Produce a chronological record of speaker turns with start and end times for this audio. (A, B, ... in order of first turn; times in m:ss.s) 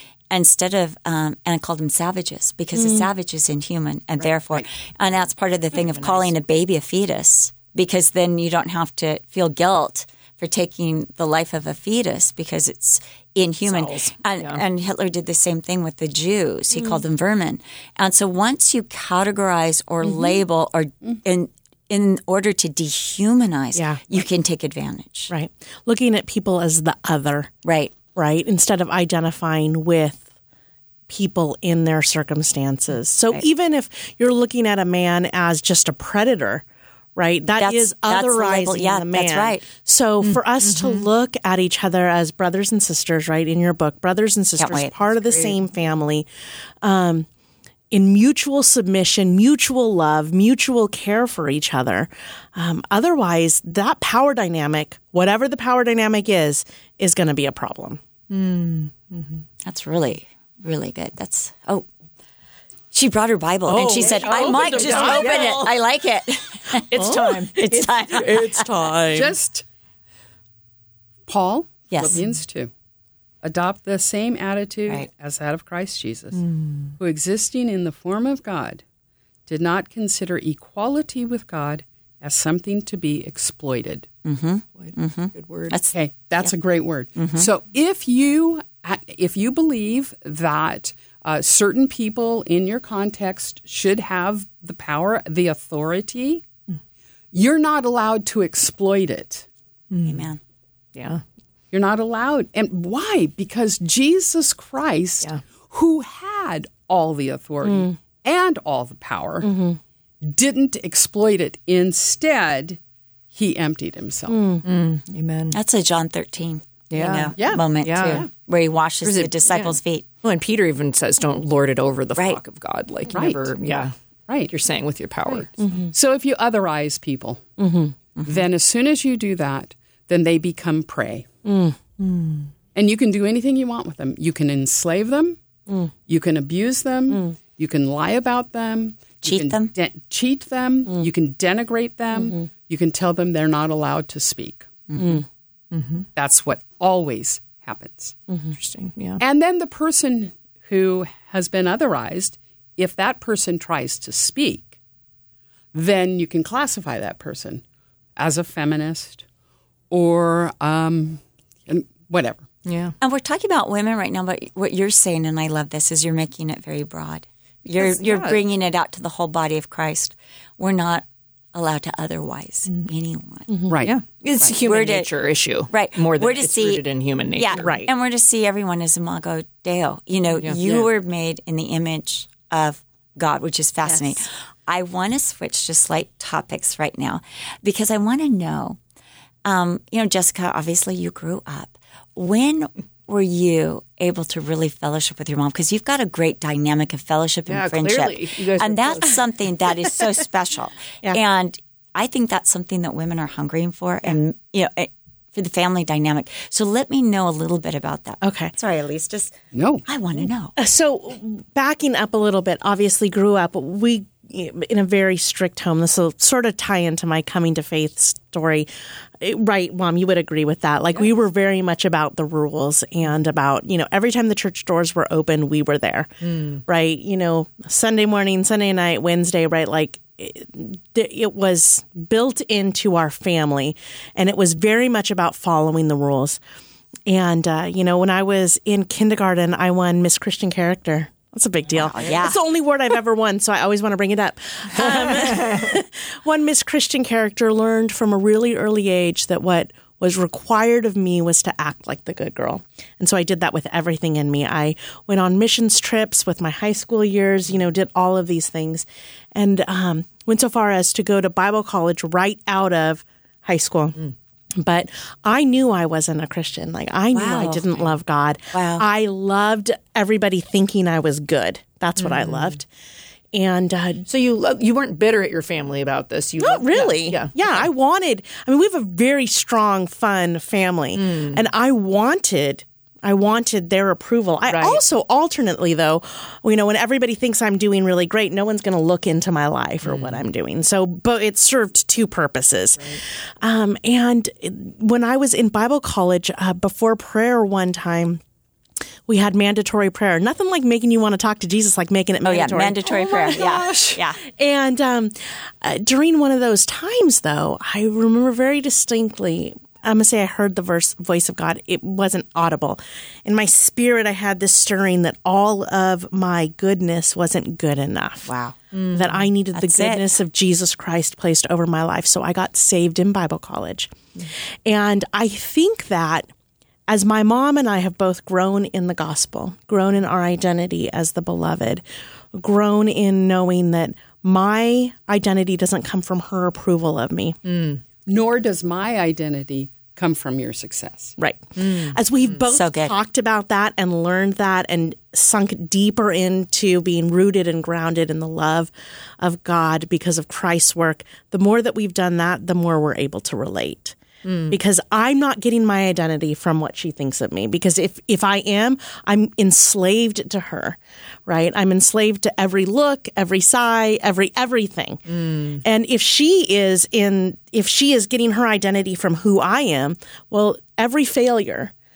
0:00.3-0:25.3 A
0:05.8-0:06.3 B
0:13.6-0:14.6 B
0:23.8-0:24.0 C
0:25.3-0:27.5 C
0:27.6-0:27.9 A
0:28.1-0:30.3 C
0:31.1-0:36.6 C
0:37.2-0:46.3 C
0:37.5-0:39.6 A
0:40.6-0:41.0 B
0:44.6-0:45.5 A
0:46.8-0:47.3 C
0:47.9-0:58.0 C
0:58.3-0:59.4 B
0:59.6-1:01.9 A
1:02.9-1:08.7 A
1:03.7-1:05.7 C
1:03.7-1:05.7 B
1:06.9-1:09.3 C
1:09.1-1:09.6 D
1:11.3-1:12.7 D
1:11.9-1:12.2 A
1:12.0-1:12.3 B
1:13.4-1:16.4 D
1:16.4-1:17.0 B
1:17.0-1:18.8 D
1:19.5-1:24.1 D
1:24.2-1:26.5 A
1:24.8-1:25.8 B
1:25.9-1:36.4 D
1:27.2-1:27.5 A
1:37.3-1:39.5 D
1:39.9-1:40.3 B
1:40.0-1:40.4 A
1:40.9-1:41.2 B
1:41.7-1:49.5 D
1:49.4-1:49.8 C
1:50.2-1:52.8 D
1:53.3-1:54.5 D
1:54.3-1:54.6 C
1:54.6-1:55.6 B
1:55.5-2:00.0 A
1:56.9-1:58.3 B
1:57.4-1:58.3 D
1:59.0-2:03.9 B
2:03.1-2:03.5 D
2:04.3-2:04.5 D
2:04.5-2:05.5 B
2:05.2-2:07.4 D
2:05.6-2:05.9 C
2:07.6-2:07.9 C
2:08.2-2:08.4 A
2:08.2-2:11.2 D
2:11.4-2:11.8 C
2:12.0-2:12.5 B
2:12.7-2:15.4 D
2:16.1-2:24.7 D
2:19.2-2:19.7 A
2:24.9-2:25.2 A
2:25.0-2:25.2 C
2:25.7-2:26.1 B
2:26.2-2:28.2 D
2:28.5-2:29.2 B
2:29.2-2:34.8 D
2:35.7-2:37.6 D
2:38.2-2:39.2 D
2:39.9-2:42.4 D
2:42.6-2:42.9 B
2:43.0-2:53.5 A
2:47.8-2:48.4 B
2:53.7-2:54.5 D
2:53.8-2:57.7 B
2:54.6-2:55.1 A
2:55.7-2:56.8 A
2:57.4-3:08.8 A
2:57.6-2:57.9 C
3:00.4-3:00.9 B
3:09.4-3:29.3 A
3:17.5-3:19.2 B
3:28.2-3:28.5 C
3:29.5-3:29.8 D
3:29.8-3:30.5 A
3:30.6-3:38.7 C
3:39.2-3:56.4 C
3:46.2-3:46.6 B
3:57.0-4:24.0 C
4:01.8-4:02.4 A
4:04.8-4:05.6 B
4:24.6-4:32.7 C
4:27.1-4:27.9 A
4:28.5-4:28.8 A
4:32.0-4:32.5 B
4:33.3-4:34.0 C
4:34.1-4:37.5 B
4:36.4-4:58.2 C
4:41.0-4:41.4 B
4:44.5-4:44.8 B
4:49.8-4:50.2 B
4:59.1-5:18.3 C
5:02.2-5:04.2 A
5:18.3-5:19.3 B
5:18.9-5:23.9 C
5:19.5-5:20.1 A
5:24.6-5:26.3 C
5:26.9-5:37.4 C
5:37.4-5:37.8 B
5:38.1-5:41.1 D
5:41.2-5:54.0 C
5:41.6-5:42.0 B
5:42.5-5:42.9 A
5:54.2-5:54.6 B
5:54.5-6:05.0 C
6:05.1-6:05.6 B
6:05.6-6:11.7 C